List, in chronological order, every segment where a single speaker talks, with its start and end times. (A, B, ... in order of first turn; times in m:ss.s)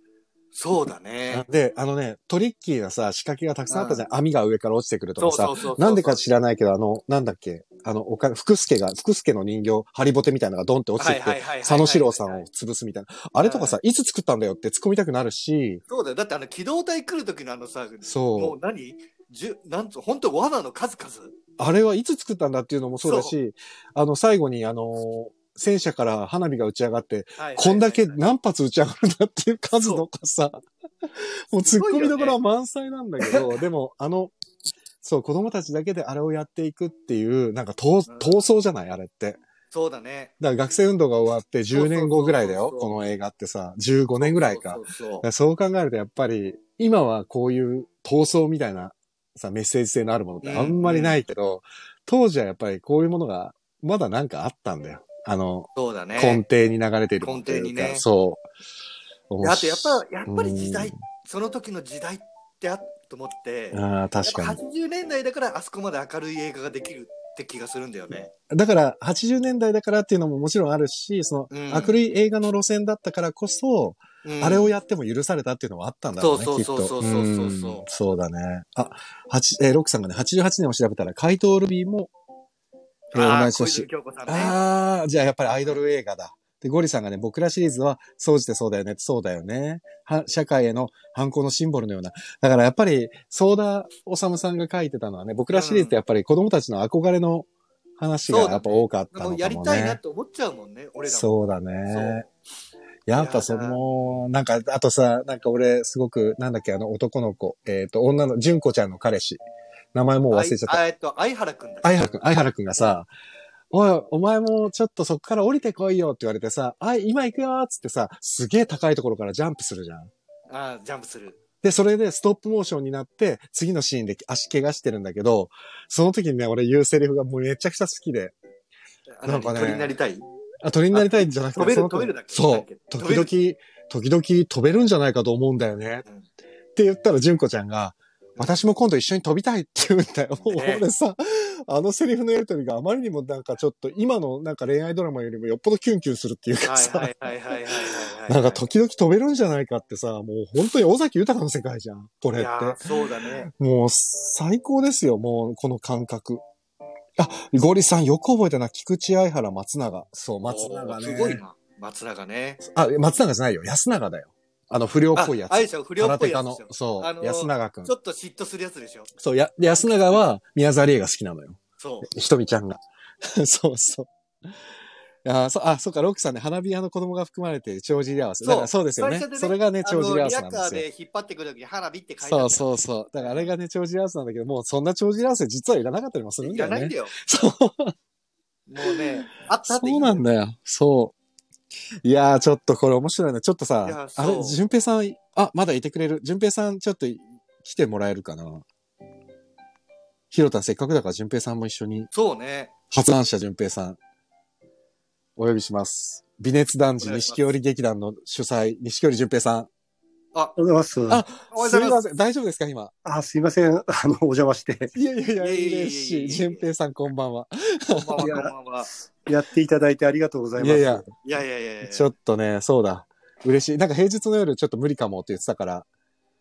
0:00.5-0:01.5 A
0:01.3-0:15.8 B
0:03.7-0:04.0 A
0:05.2-0:06.2 A
0:11.0-0:12.5 A
0:13.4-0:13.8 A
0:15.9-0:21.4 A
0:18.0-0:18.6 B
0:21.6-0:34.3 B
0:23.0-0:23.3 A
0:27.4-0:28.2 A
0:31.7-0:32.4 A
0:33.2-0:33.6 A
0:35.0-0:39.4 B
0:38.1-0:38.4 A
0:39.7-0:40.3 A
0:40.4-0:58.4 B
0:41.7-0:42.9 A
0:44.2-0:45.3 A
0:50.4-0:51.2 A
0:55.8-0:56.4 A
0:57.2-0:58.0 A
0:59.3-1:01.0 B
0:59.4-1:08.3 A
1:03.7-1:04.6 B
1:08.5-1:22.1 B
1:11.5-1:12.0 A
1:14.2-1:14.7 A
1:16.2-1:17.9 A
1:23.1-1:40.0 B
1:23.1-1:24.6 A
1:25.5-1:25.8 A
1:35.5-1:36.0 A
1:38.3-1:41.3 A
1:41.1-1:42.2 B
1:41.9-1:42.3 A
1:43.1-1:49.4 B
1:43.1-1:43.8 A
1:49.9-1:50.8 B
1:50.3-1:52.2 A
1:51.8-1:53.1 B
1:53.7-2:00.1 B
2:00.5-2:01.4 A
2:01.6-2:08.4 B
2:09.2-2:10.3 A
2:09.3-2:09.9 B
2:10.6-2:16.1 B
2:10.9-2:13.3 A
2:16.8-2:36.4 B
2:20.5-2:20.8 A
2:26.6-2:28.6 A
2:32.3-2:33.5 A
2:37.2-2:41.4 B
2:40.4-2:42.6 A
2:42.6-2:47.9 B
2:45.2-2:49.1 A
2:49.2-2:54.1 B
2:51.8-2:52.1 A
2:55.2-3:00.8 B
2:58.4-3:03.5 A
3:02.2-3:07.9 B
3:06.4-3:07.1 A
3:08.7-3:10.3 A
3:08.8-3:09.1 B
3:09.7-3:11.2 B
3:12.0-3:18.6 B
3:13.8-3:14.6 A
3:20.3-3:22.1 B
3:22.1-3:22.7 A
3:22.9-3:24.0 B
3:25.4-3:29.7 B
3:27.0-3:27.5 A
3:30.6-3:31.2 C
3:31.1-3:32.9 B
3:31.5-3:32.0 A
3:33.0-3:34.9 C
3:34.9-3:38.2 B
3:35.4-3:36.7 A
3:37.9-3:38.9 A
3:38.2-3:38.5 C
3:39.3-3:41.0 C
3:40.6-3:41.1 B
3:41.2-3:42.1 A
3:41.8-3:45.9 B